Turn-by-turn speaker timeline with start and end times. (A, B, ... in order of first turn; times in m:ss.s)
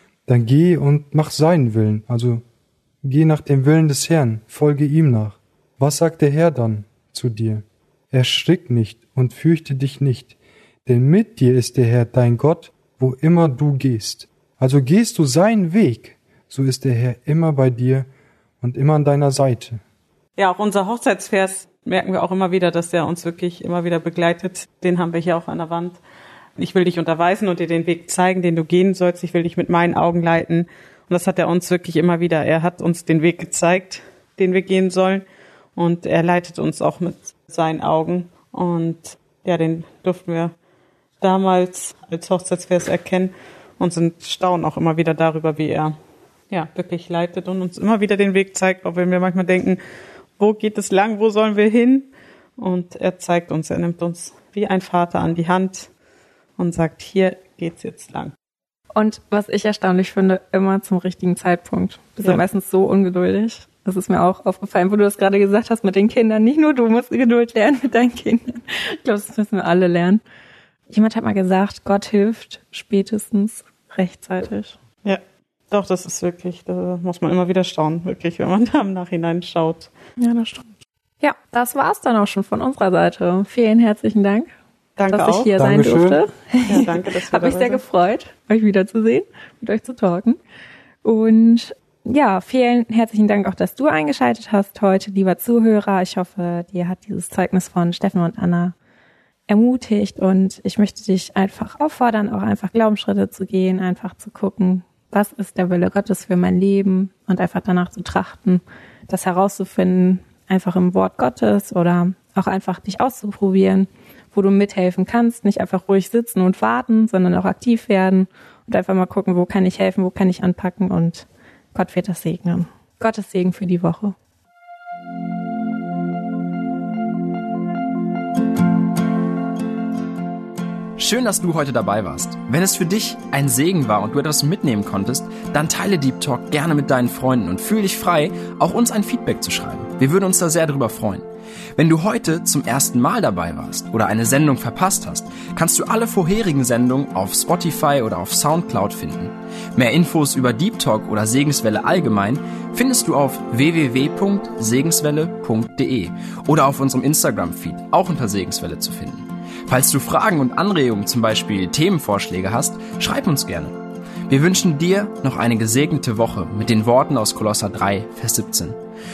0:00.3-0:02.4 A
0:03.0-0:18.1 A
0:18.6-0:19.8 A
0:20.4-0:26.0 B
0:26.6-0:35.2 B
0:35.8-0:40.5 B
0:41.2-0:45.9 B
0:46.5-0:49.8 B
0:50.4-0:55.9 B
0:56.6-0:58.3 B
0:58.9-1:10.2 C
1:10.9-1:14.8 C
1:15.0-1:19.9 B
1:20.2-1:20.7 C
1:21.2-1:24.5 C
1:25.0-1:25.5 B
1:25.1-1:30.4 C
1:25.6-1:26.2 A
1:26.7-1:27.8 B
1:31.0-1:38.7 C
1:39.5-2:04.2 C
2:11.0-2:21.2 D
2:21.8-2:48.8 D